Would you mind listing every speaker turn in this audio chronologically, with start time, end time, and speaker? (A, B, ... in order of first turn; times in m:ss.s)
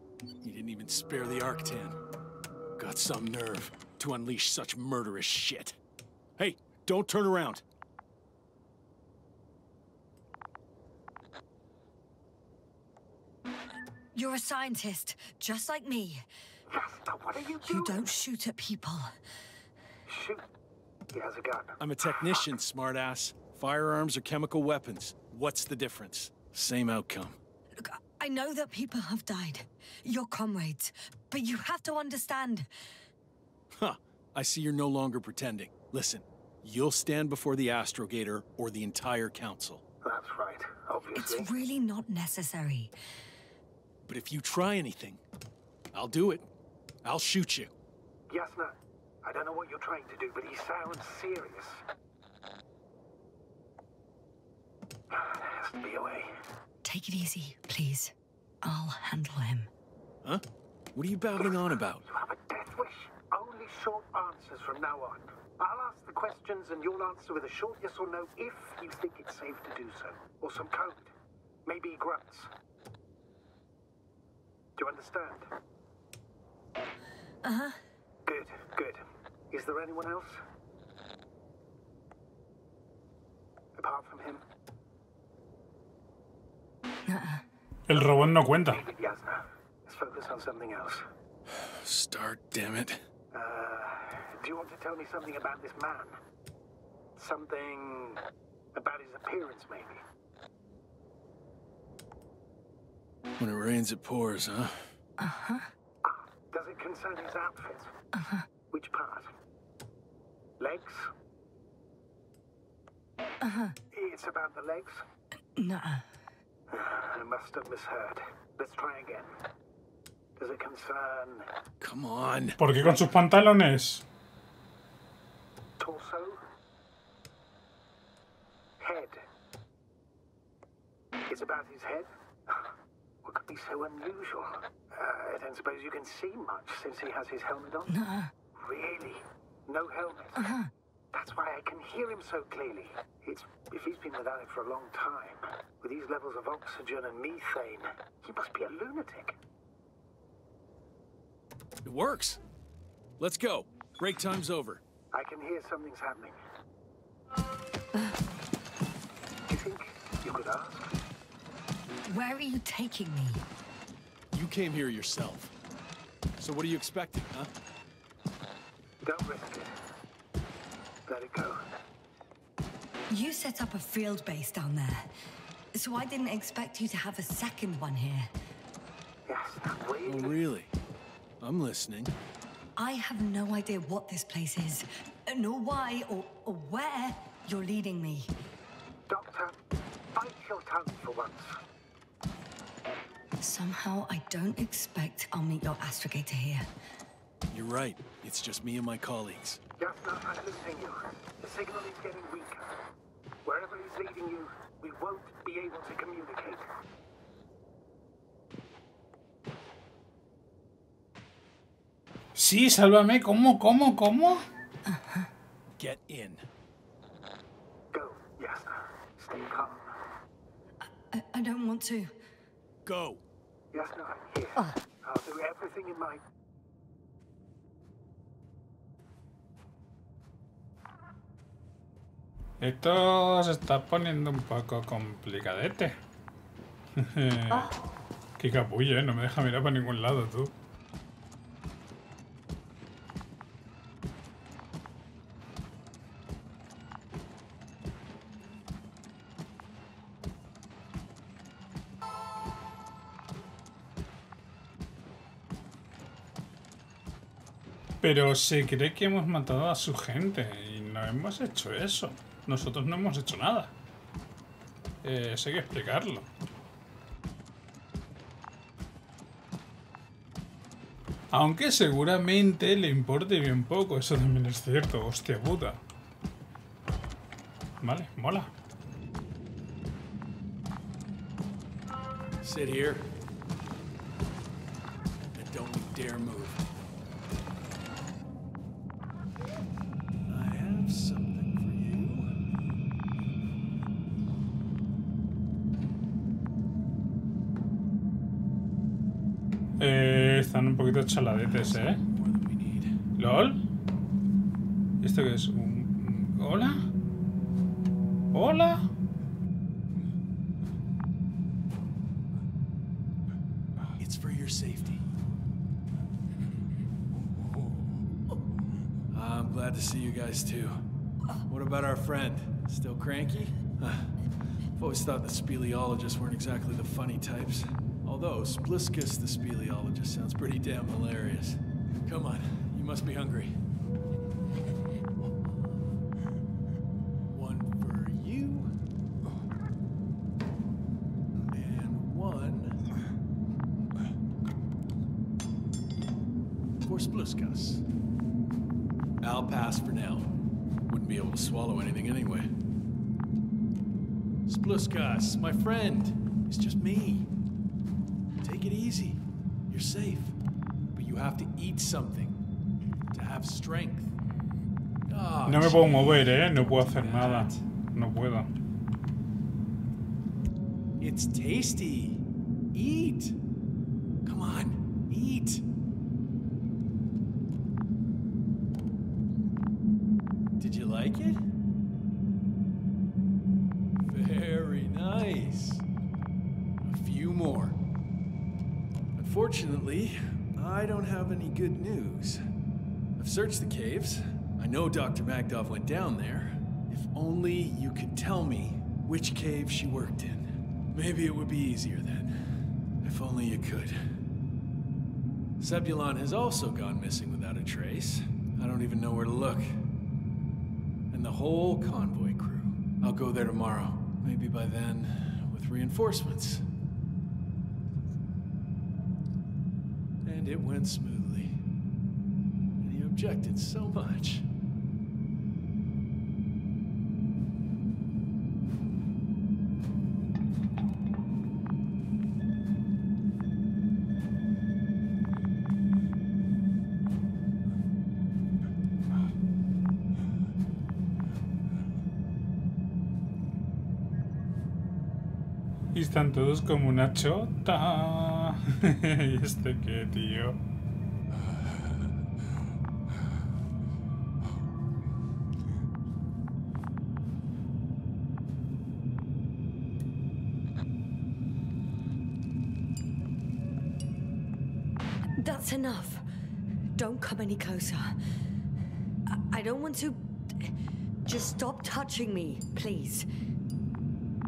0:00.4-0:02.0 A
0:02.8-0:05.8 A
0:06.4-0:07.6 A
0:14.1-0:16.2 B
0:16.7-0:18.1 C
0:17.6-0:19.1 B
0:20.1-0:20.4 C
0:21.1-0:22.4 C
0:21.8-0:27.4 A
0:27.8-0:32.7 B
0:33.8-0:39.8 A
0:40.0-0:41.5 C
0:41.1-0:42.9 B
0:44.0-0:45.2 A
0:45.9-0:46.4 A
0:47.0-0:47.7 A
0:48.3-0:51.8 C
0:55.1-0:56.3 C
0:56.8-0:59.7 B
1:00.9-1:02.0 A
1:01.4-1:11.1 C
1:11.6-1:12.5 C
1:14.8-1:15.5 C
1:17.4-1:17.8 B
1:18.2-1:20.4 C
1:23.8-1:24.4 C
1:27.1-1:27.4 B
1:27.9-1:28.8 D
1:27.9-1:31.1 C
1:31.5-1:33.0 A
1:33.3-1:36.2 C
1:37.2-1:38.2 C
1:38.7-1:40.0 C
1:43.4-1:44.9 A
1:45.2-1:45.7 B
1:46.0-1:47.9 C
1:48.1-1:48.4 B
1:48.7-1:49.3 C
1:50.6-1:51.1 C
1:53.4-1:53.8 B
1:53.9-1:55.0 C
1:55.6-1:56.0 B
1:56.7-1:59.3 C
2:00.4-2:01.5 C
2:01.8-2:02.6 A
2:02.6-2:04.0 D
2:02.8-2:03.1 C
2:05.8-2:06.4 C
2:08.8-2:09.2 C
2:11.3-2:12.7 C
2:13.2-2:18.0 C
2:17.9-2:18.3 B
2:18.6-2:20.5 C
2:20.4-2:20.7 B
2:21.1-2:29.4 C
2:31.8-2:32.4 A
2:33.2-2:34.8 A
2:35.1-2:36.4 C
2:39.5-2:40.9 C
2:42.0-2:43.4 B
2:44.3-2:45.5 A
2:46.4-2:47.5 A
2:49.0-2:49.7 C
2:51.1-2:51.6 C
2:53.1-2:55.1 B
2:55.7-2:58.3 B
2:59.3-3:00.4 C
3:00.0-3:00.7 A
3:01.4-3:02.1 A
3:02.8-3:08.3 B
3:09.1-3:09.6 C
3:10.1-3:11.6 C
3:13.4-3:16.7 B
3:17.5-3:19.6 A
3:19.8-3:22.8 C
3:23.4-3:26.7 C
3:32.4-3:34.4 D
3:34.9-3:35.3 B
3:35.8-3:36.5 A
3:37.9-3:39.9 C
3:41.1-3:42.1 B
3:42.8-3:43.2 A
3:43.7-3:46.2 C
3:52.6-3:55.9 D
3:57.0-3:57.7 D
3:58.4-4:00.5 D
4:18.0-4:23.7 D
4:25.0-4:26.3 D
4:31.3-4:35.8 D
4:37.8-4:38.5 D
4:42.4-4:43.1 A
4:45.2-4:46.6 A
4:50.3-4:52.3 A
4:59.8-5:02.0 D
5:01.4-5:02.9 A
5:03.2-5:03.6 D
5:05.0-5:06.8 D
5:08.3-5:08.8 D
5:14.0-5:15.0 A
5:19.1-5:20.8 A
5:21.5-5:24.1 A
5:24.8-5:33.6 A
5:37.3-5:38.7 A
5:41.4-5:42.8 A
5:46.8-5:47.8 A
5:49.2-5:50.3 A
5:50.9-5:52.5 A
5:54.5-5:57.3 A
5:58.4-6:00.3 A
6:00.9-6:02.4 A
6:03.1-6:04.1 A
6:05.1-6:07.6 A
6:05.5-6:08.5 D
6:11.0-6:13.4 A
6:14.2-6:15.6 A
6:20.6-6:21.4 A
6:24.0-6:25.8 A
6:26.8-6:27.8 A
6:29.2-6:32.4 A
6:33.2-6:42.3 A
6:43.0-6:44.0 A
6:45.6-6:49.8 A
6:51.1-6:56.6 A
7:00.2-7:01.6 A
7:02.8-7:04.4 A
7:25.9-7:30.6 D
7:45.4-7:46.2 B
7:47.0-7:48.1 B
7:49.3-7:53.3 B